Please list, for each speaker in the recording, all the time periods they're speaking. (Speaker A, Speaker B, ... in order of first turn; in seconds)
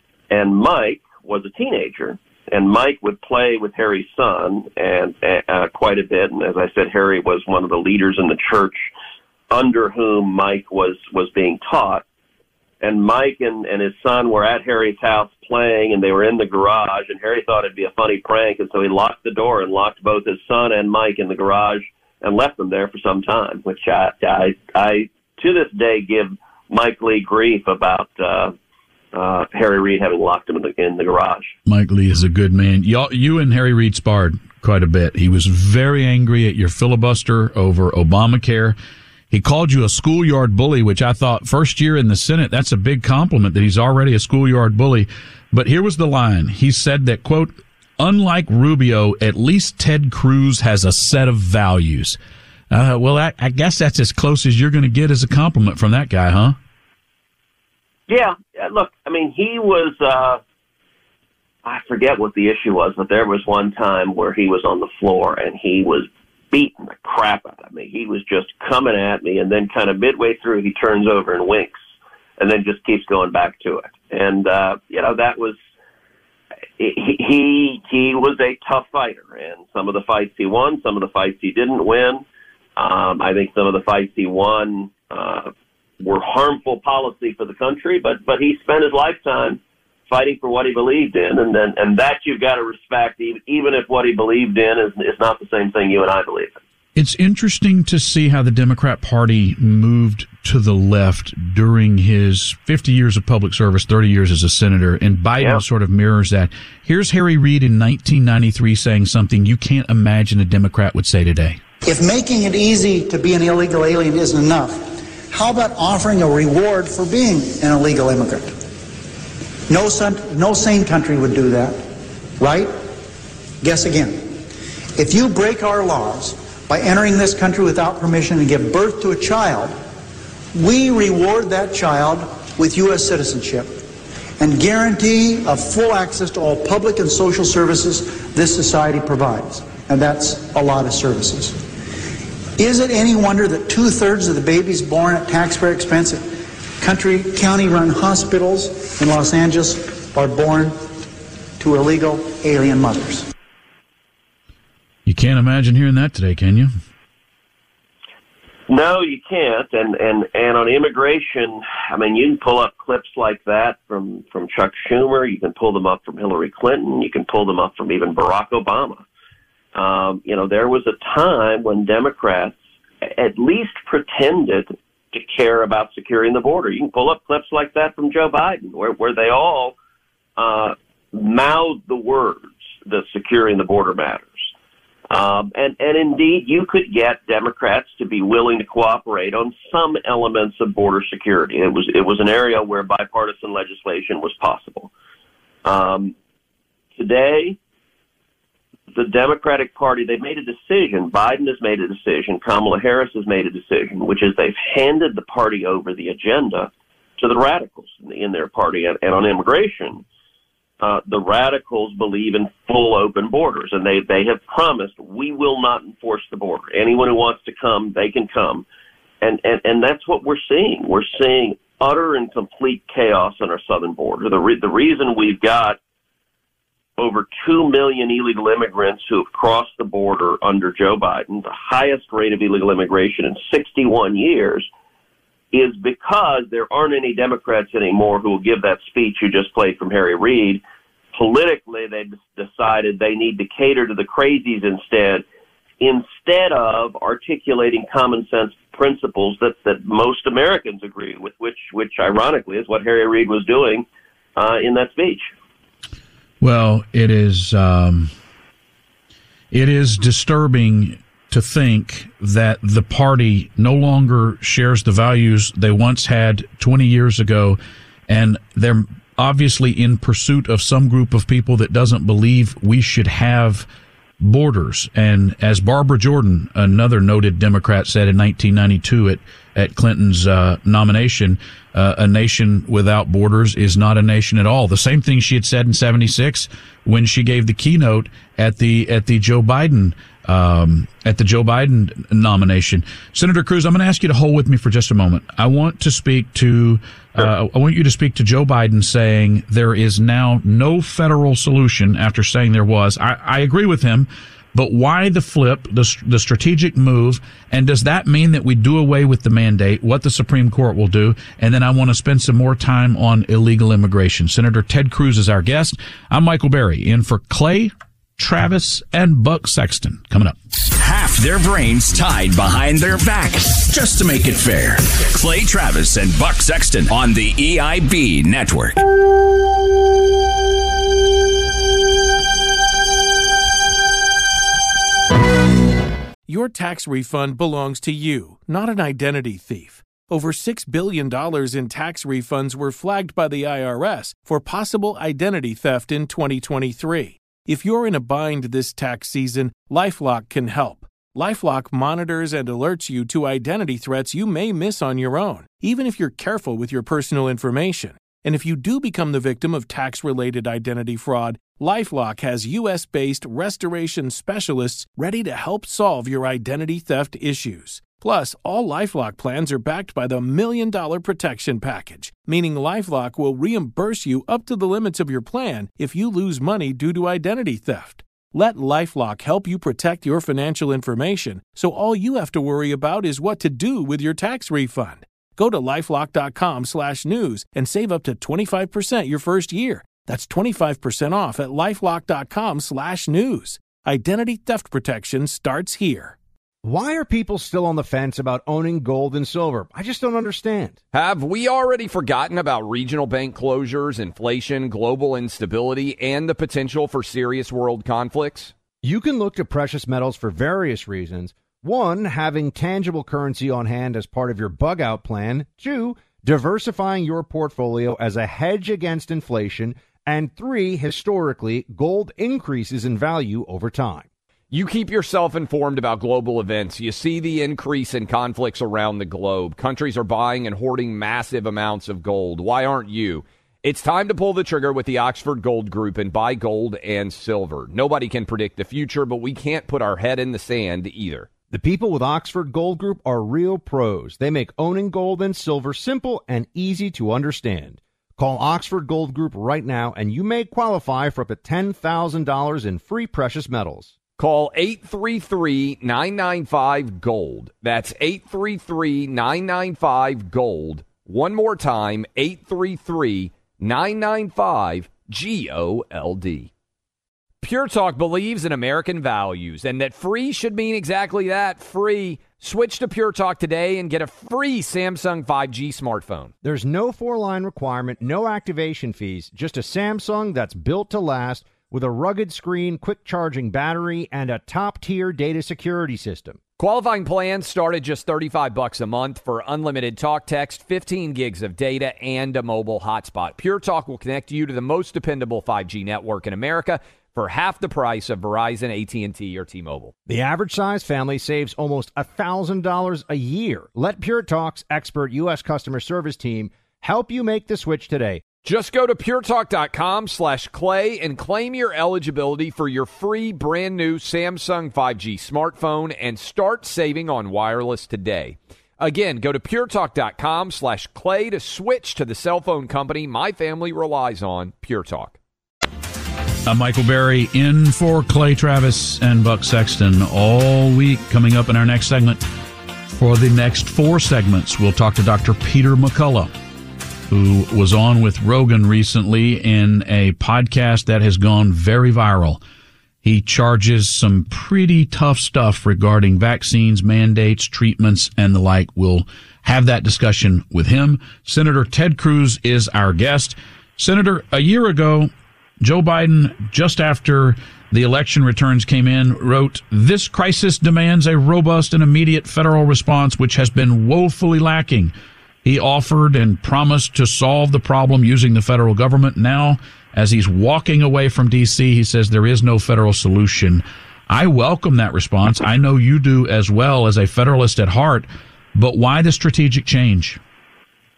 Speaker A: 0.3-8.9, 9.5-12.0, 12.8-28.5, 29.1-31.6, 58.1-60.4, 61.6-71.8, 72.4-75.6, 76.8-82.2, 82.8-96.5, 158.7-169.0, 169.8-179.8, 180.4-184.5, 185.1-194.9, 195.7-196.1, 197.0-197.6, 198.9-210.0, 210.8-218.7, 219.2-225.8, 227.0-234.7, 235.5-240.6, 241.1-245.2, 245.8-255.3
Speaker B: 31.7-38.8, 39.3-52.2, 52.7-56.6, 97.0-111.6, 155.1-156.7, 256.4-258.1, 259.5-273.7, 274.2-320.4, 526.5-532.2, 532.9-536.3, 537.1-542.4, 543.0-580.2
Speaker C: 111.8-118.6, 119.7-121.9, 122.4-122.9, 123.6-124.4, 125.0-129.8, 130.6-133.8, 134.4-141.6, 142.6-146.3, 146.8-151.0, 151.6-153.3
Speaker D: 320.7-328.8
Speaker E: 336.3-396.2
Speaker F: 396.6-400.8, 408.8-424.1, 441.5-453.9, 476.4-486.4, 500.1-508.2
Speaker G: 400.9-408.5, 424.5-441.3, 454.2-466.5, 467.4-476.3, 486.6-499.9, 508.4-525.2